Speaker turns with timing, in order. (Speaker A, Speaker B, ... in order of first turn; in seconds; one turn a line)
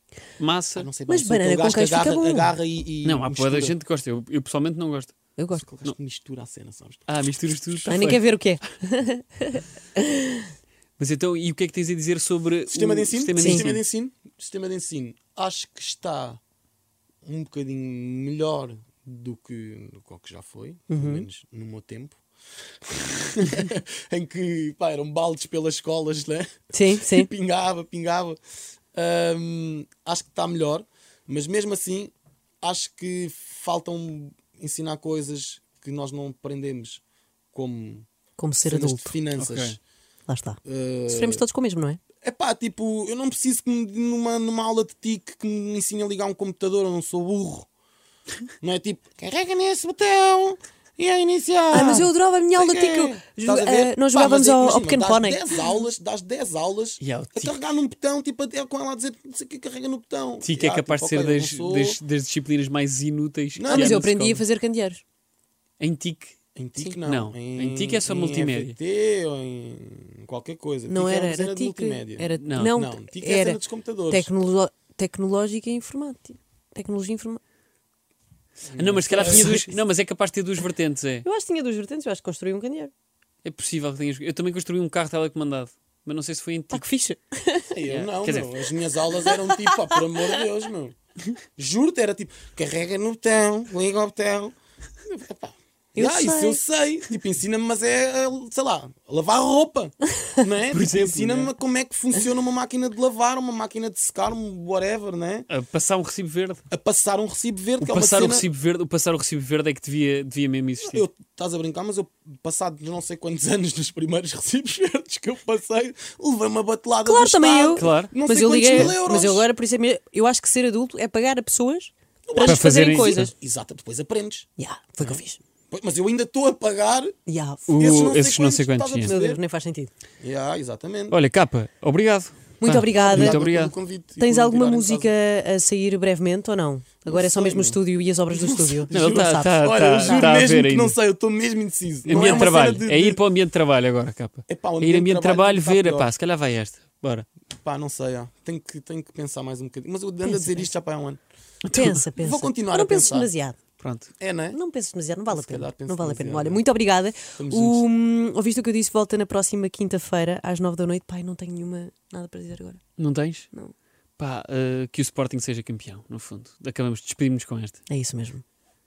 Speaker A: 0.4-0.9
Speaker B: 0.7-3.7
Speaker C: 1.1-2.5
Speaker A: 3.0-5.2
Speaker C: 5.4-5.6
Speaker B: 5.5-8.2
Speaker A: 7.1-8.2
Speaker C: 7.9-10.5
Speaker A: 11.0-13.8
Speaker B: 12.7-16.4
Speaker C: 13.4-13.6
Speaker B: 17.2-22.2
Speaker C: 20.9-21.2
Speaker B: 22.8-28.4
Speaker C: 26.7-27.3
Speaker B: 28.9-37.0
Speaker B: 37.5-38.1
Speaker C: 38.4-39.1
Speaker B: 38.6-39.8
Speaker A: 39.4-39.8
Speaker C: 40.3-42.0
Speaker B: 40.6-41.4
Speaker B: 42.2-47.7
Speaker B: 48.6-62.0
Speaker C: 51.7-55.5
Speaker A: 57.0-57.6
Speaker A: 60.4-64.4
Speaker B: 63.5-64.1
Speaker C: 63.7-65.0
Speaker A: 65.8-66.4
Speaker B: 66.5-74.3
Speaker A: 67.0-68.8
Speaker C: 70.9-77.4
Speaker A: 72.4-72.7
Speaker B: 78.7-79.6
Speaker A: 78.8-81.2
Speaker C: 79.2-79.8
Speaker C: 81.2-82.9
Speaker A: 83.4-86.9
Speaker C: 86.7-87.7
Speaker B: 87.7-91.0
Speaker A: 87.8-88.6
Speaker C: 89.3-89.8
Speaker B: 91.5-105.5
Speaker C: 95.9-96.6
Speaker A: 100.7-101.5
Speaker A: 105.5-106.6
Speaker B: 106.7-108.5
Speaker A: 107.8-111.0
Speaker B: 110.8-119.5
Speaker C: 117.0-123.3
Speaker A: 117.8-118.1
Speaker B: 122.2-124.5
Speaker A: 122.4-123.3
Speaker C: 124.6-125.4
Speaker B: 125.0-127.2
Speaker C: 127.3-127.8
Speaker A: 127.7-129.1
Speaker B: 127.8-129.4
Speaker C: 129.1-129.9
Speaker B: 130.2-131.2
Speaker A: 131.1-133.7
Speaker C: 132.6-133.4
Speaker B: 133.0-135.1
Speaker C: 134.2-140.3
Speaker B: 137.1-137.8
Speaker B: 138.3-143.2
Speaker A: 138.9-141.0
Speaker A: 142.1-147.3
Speaker C: 142.1-142.7
Speaker B: 144.5-146.1
Speaker B: 147.6-151.2
Speaker C: 150.2-150.7
Speaker A: 151.7-152.0
Speaker C: 151.7-153.6
Speaker B: 152.2-153.3
Speaker A: 153.8-154.1
Speaker B: 154.2-154.6
Speaker C: 154.5-162.8
Speaker B: 155.3-156.6
Speaker B: 157.4-157.8
Speaker A: 163.0-163.5
Speaker A: 164.2-167.8
Speaker C: 167.9-168.4